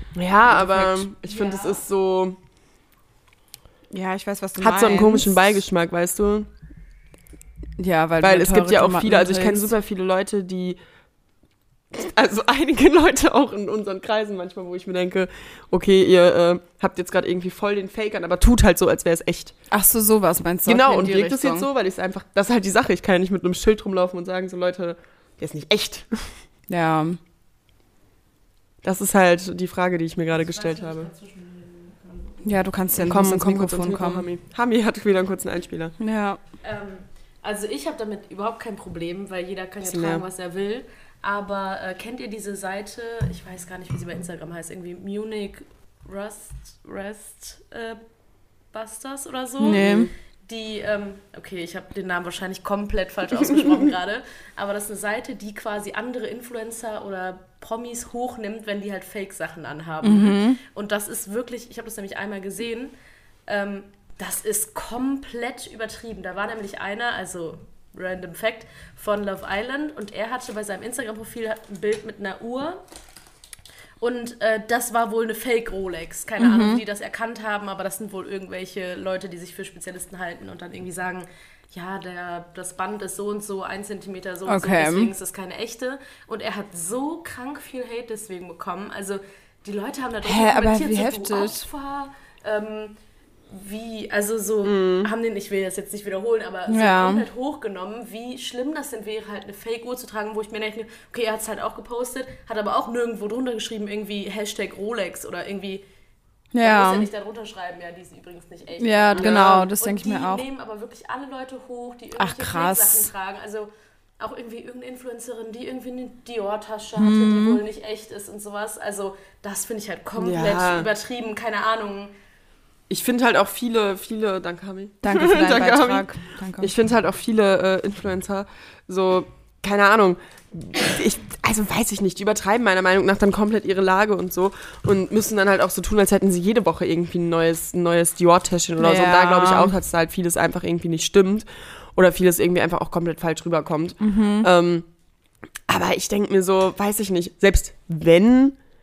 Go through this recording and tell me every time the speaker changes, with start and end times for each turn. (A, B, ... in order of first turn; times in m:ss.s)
0:00.2-0:02.4 A
0:00.5-0:01.1 B
0:01.2-0:01.8 C
0:03.9-0:05.4 B
0:04.6-0:06.5 A
0:07.8-0:09.7 B
0:08.2-0:10.8 A
0:11.9-0:19.6 A
0:19.7-0:21.7 B
0:20.7-0:26.4 A
0:26.7-0:27.2 B
0:28.8-0:31.1 A
0:30.3-0:32.6 C
0:32.4-0:34.3 B
0:33.0-0:36.0 A
0:36.0-0:36.4 B
0:36.6-0:48.0 C
0:39.8-0:40.2 A
0:48.7-1:02.9 C
0:49.6-0:50.1 B
0:49.7-0:50.1 A
0:53.5-0:53.9 A
1:00.0-1:00.6 B
1:03.5-1:12.8 C
1:14.0-1:33.0 C
1:16.4-1:16.8 B
1:24.5-1:25.1 B
1:30.2-1:31.6 B
1:33.5-1:45.8 C
1:34.6-1:35.1 A
1:36.7-1:37.3 B
1:46.5-1:47.1 B
1:46.6-2:02.1 C
1:48.8-1:50.5 B
1:49.2-1:49.7 A
1:52.2-1:53.1 B
1:57.0-1:57.6 B
2:00.2-2:00.9 A
2:02.9-2:06.1 A
2:05.0-2:06.7 B
2:06.6-2:24.9 A
2:18.8-2:19.8 B
2:24.0-2:24.5 B
2:25.7-2:28.6 A